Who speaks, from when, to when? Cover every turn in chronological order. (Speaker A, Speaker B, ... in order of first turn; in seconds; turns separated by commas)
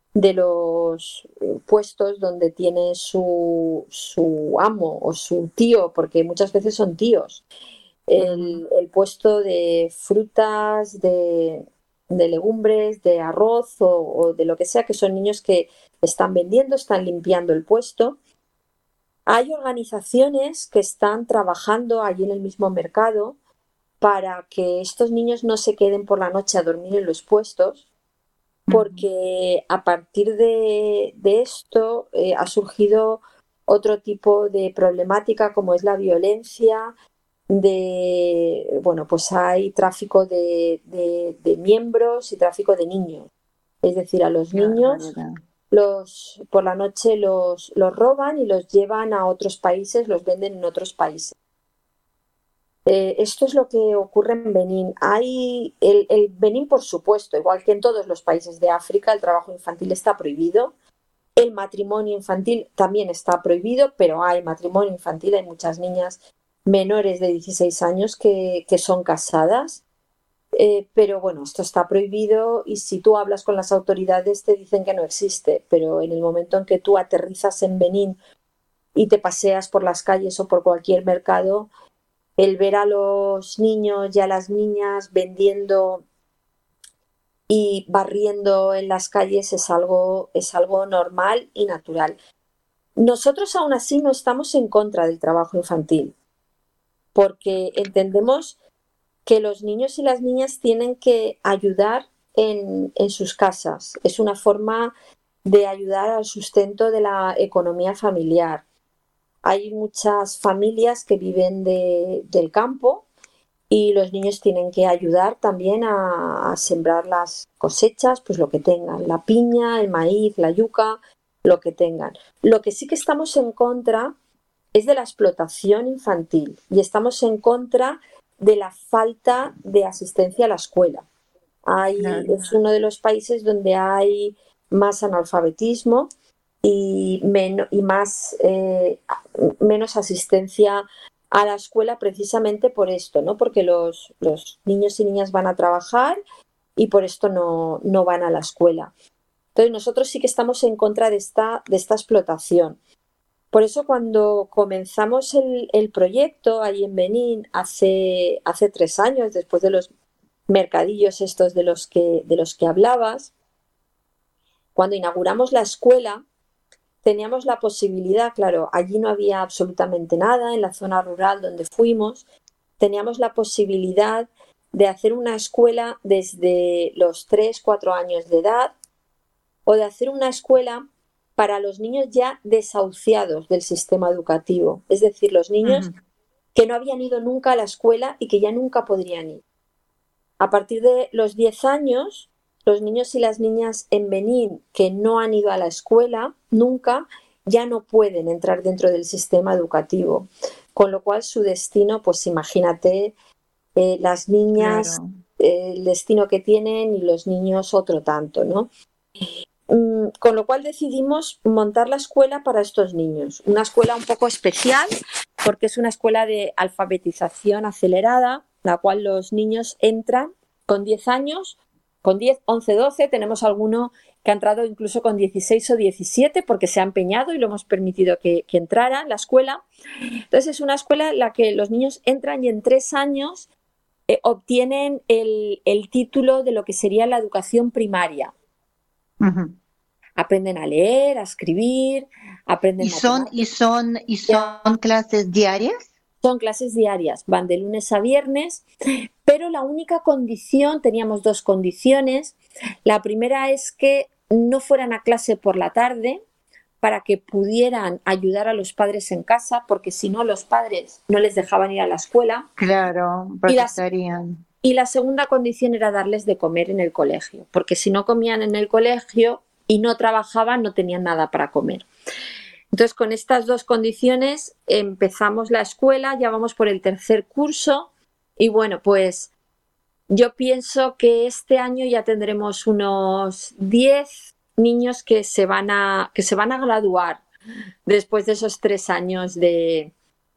Speaker A: 0.1-7.4, Speaker A: 8.1-18.2, Speaker B: 8.2-8.6, Speaker A: 19.3-23.4, Speaker A: 24.0-27.8, Speaker B: 28.7-29.1, Speaker A: 28.7-36.9, Speaker A: 37.5-43.3, Speaker A: 43.8-45.1, Speaker B: 44.5-45.3, Speaker A: 45.7-51.3, Speaker A: 52.9-60.7, Speaker A: 61.4-69.8, Speaker A: 70.5-78.2, Speaker A: 78.9-81.7, Speaker A: 82.4-86.0, Speaker A: 87.5-92.2, Speaker A: 93.0-96.1, Speaker A: 97.1-98.5, Speaker A: 99.2-104.9, Speaker A: 105.4-108.6, Speaker A: 109.4-113.0, Speaker A: 113.7-124.1, Speaker A: 124.7-131.0, Speaker A: 131.6-136.1, Speaker B: 132.0-132.5, Speaker A: 136.6-146.2, Speaker A: 146.8-148.9, Speaker A: 149.5-152.8, Speaker A: 153.5-159.9, Speaker A: 160.5-163.3, Speaker A: 164.7-166.2, Speaker A: 167.0-172.2, Speaker A: 172.8-178.7, Speaker A: 179.7-185.9, Speaker B: 185.6-185.9, Speaker A: 186.5-189.4, Speaker A: 190.4-203.1, Speaker A: 203.8-208.7, Speaker B: 204.6-205.1, Speaker A: 209.7-214.9, Speaker A: 215.4-229.6, Speaker A: 230.3-233.5, Speaker A: 234.1-238.3, Speaker B: 239.2-239.6, Speaker A: 240.2-243.3, Speaker B: 242.8-245.9, Speaker A: 244.3-244.6, Speaker A: 246.2-248.6, Speaker A: 249.2-256.2, Speaker A: 256.8-262.5, Speaker B: 262.6-264.4, Speaker A: 263.5-263.8, Speaker A: 264.6-271.9, Speaker A: 272.7-279.3, Speaker A: 280.1-287.2, Speaker A: 287.9-289.9